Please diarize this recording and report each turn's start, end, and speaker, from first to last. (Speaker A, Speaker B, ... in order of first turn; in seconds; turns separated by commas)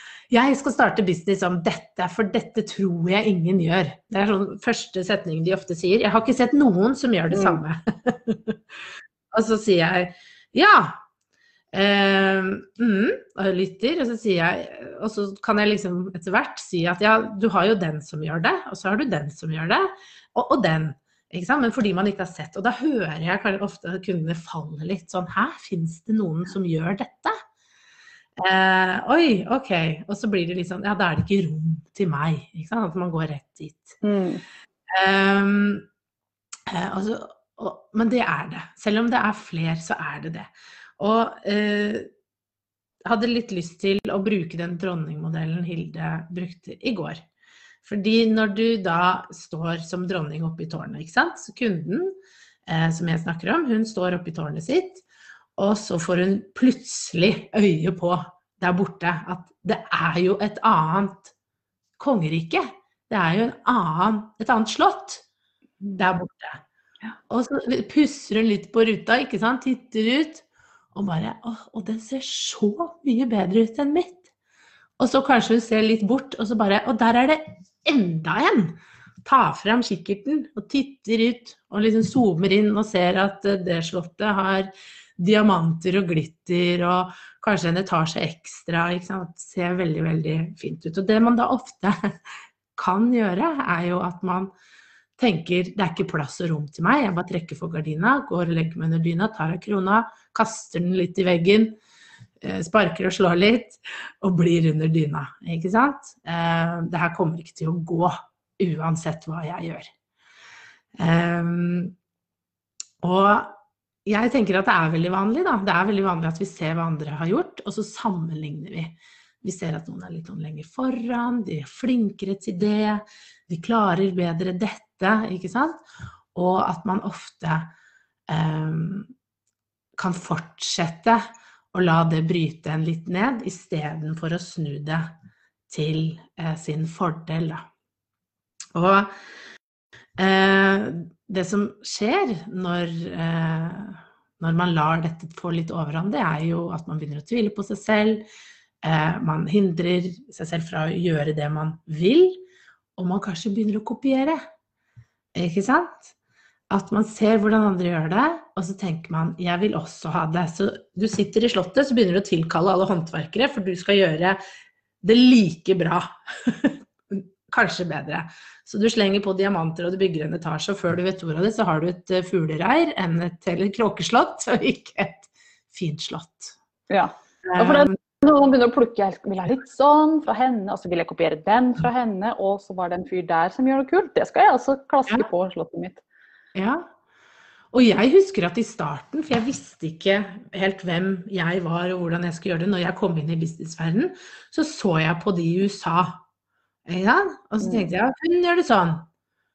Speaker A: 0.3-8.8, Speaker B: 7.3-7.6, Speaker A: 9.3-11.0, Speaker A: 11.7-27.3, Speaker A: 28.4-34.0, Speaker B: 34.0-34.4, Speaker A: 34.9-35.9, Speaker A: 36.7-42.1, Speaker A: 43.0-47.2, Speaker A: 47.8-52.1, Speaker A: 52.7-55.0, Speaker A: 55.6-61.3, Speaker A: 62.0-65.2, Speaker A: 66.0-66.6, Speaker A: 67.3-74.3, Speaker A: 75.0-91.9, Speaker A: 92.8-94.5, Speaker A: 95.2-101.8, Speaker A: 102.4-109.9, Speaker A: 110.9-111.9, Speaker A: 113.0-125.8, Speaker A: 126.3-127.7, Speaker A: 128.3-129.1, Speaker A: 130.0-135.1, Speaker A: 135.7-137.7, Speaker A: 138.7-139.1, Speaker A: 140.2-148.2, Speaker A: 148.8-152.4, Speaker A: 153.0-154.4, Speaker A: 155.3-156.1, Speaker A: 156.7-164.4, Speaker A: 165.0-176.6, Speaker B: 176.9-186.0, Speaker A: 177.4-177.9, Speaker A: 186.5-186.9, Speaker A: 187.7-196.2, Speaker A: 196.9-199.1, Speaker B: 197.6-197.9